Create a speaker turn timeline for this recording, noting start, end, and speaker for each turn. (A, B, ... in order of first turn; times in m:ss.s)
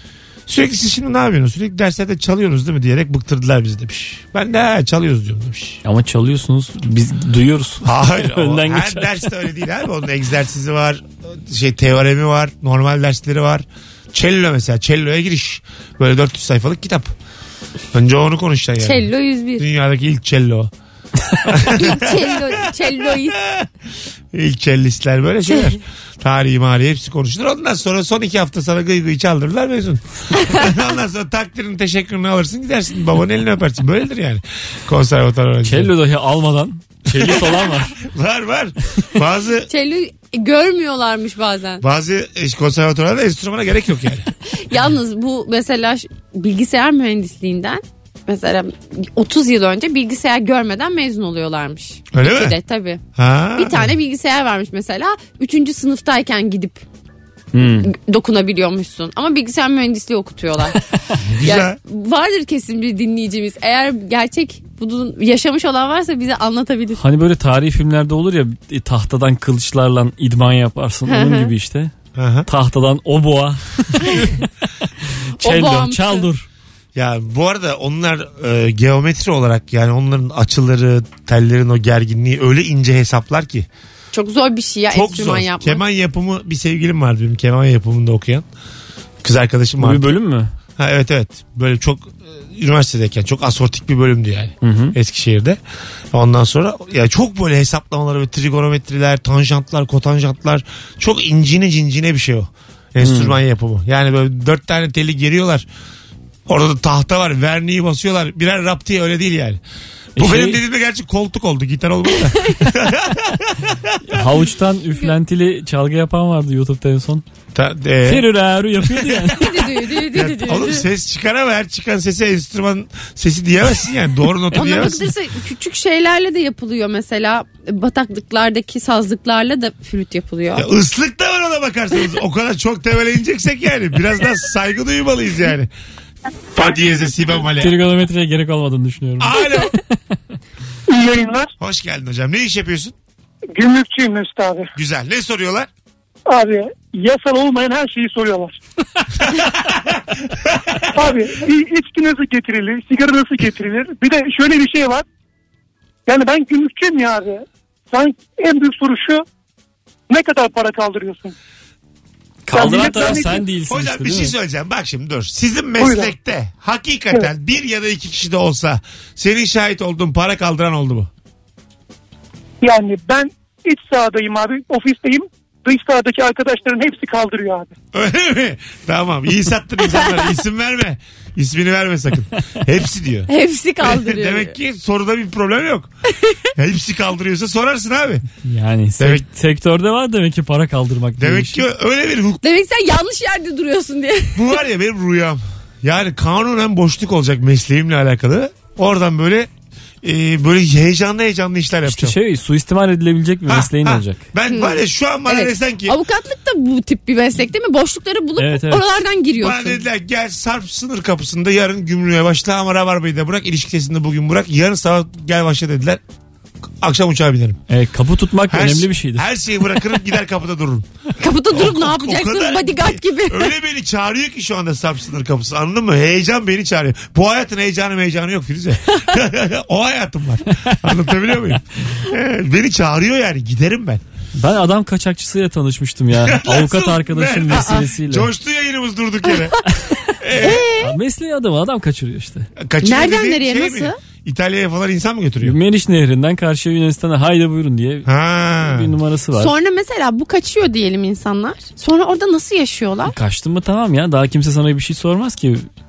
0:00.5-0:05.8 A
0:05.8-0:09.2 B
0:07.8-0:17.1 A
0:17.9-0:20.7 A
0:18.8-0:19.6 C
0:21.5-0:23.7 A
0:21.5-0:23.4 C
0:24.3-0:35.9 A
0:35.6-0:38.0 B
0:37.1-0:39.7 A
0:39.7-0:41.8 C
0:41.8-0:44.3 A
0:44.5-0:53.0 C
0:52.1-0:52.5 A
0:53.2-0:53.9 A
0:53.6-0:56.8 C
0:57.5-0:57.9 B
0:57.8-1:00.8 C
1:01.2-1:01.8 A
1:01.4-1:07.0 C
1:07.0-1:11.9 B
1:11.1-1:11.5 C
1:12.1-1:12.5 A
1:12.5-1:14.5 B
1:15.4-1:16.3 C
1:15.4-1:16.4 B
1:16.9-1:23.7 A
1:24.1-1:25.8 C
1:24.9-1:28.4 A
1:29.2-1:30.1 A
1:29.8-1:30.5 B
1:30.8-1:35.6 A
1:34.6-1:34.9 B
1:36.1-1:45.6 A
1:43.0-1:43.4 B
1:46.5-1:49.6 A
1:50.2-1:50.6 B
1:50.2-1:54.1 A
1:54.1-1:57.2 B
1:57.5-1:58.3 A
1:58.0-1:59.6 B
1:58.8-1:59.3 A
1:59.3-2:00.8 C
2:00.1-2:05.1 A
2:04.5-2:10.7 C
2:10.6-2:15.7 A
2:16.5-2:17.8 A
2:17.6-2:19.9 B
2:19.2-2:19.7 A
2:20.9-2:21.5 D
2:21.6-2:22.9 A
2:23.5-2:24.7 D
2:24.8-2:25.7 A
2:26.3-2:28.6 D
2:29.6-2:29.9 A
2:30.5-2:30.8 A
2:30.9-2:35.0 D
2:36.1-2:39.2 D
2:40.1-2:41.3 D
2:42.4-2:44.3 B
2:42.5-2:43.4 D
2:43.7-2:51.1 A
2:45.8-2:46.1 D
2:52.6-2:57.7 D
2:57.9-3:03.3 A
3:03.3-3:04.5 C
3:03.8-3:05.9 A
3:06.6-3:08.2 A
3:08.4-3:11.6 B
3:09.0-3:09.2 A
3:11.2-3:12.4 A
3:12.4-3:14.6 C
3:14.3-3:19.5 A
3:20.0-3:22.2 A
3:21.9-3:24.2 B
3:23.5-3:26.0 A
3:24.4-3:29.8 C
3:28.4-3:28.8 B
3:29.4-3:36.0 A
3:36.8-3:37.6 A
3:37.7-3:39.2 B
3:38.5-3:40.9 A
3:41.2-3:43.5 C
3:41.5-3:54.0 A
3:54.3-3:58.3 B
3:56.2-3:59.6 A
3:57.5-3:57.8 C
4:00.2-4:00.8 A
4:00.3-4:00.9 C
4:00.8-4:02.5 B
4:02.6-4:05.6 A
4:02.8-4:04.0 C
4:05.4-4:09.5 B
4:08.0-4:08.9 A
4:09.4-4:13.1 C
4:13.0-4:15.7 B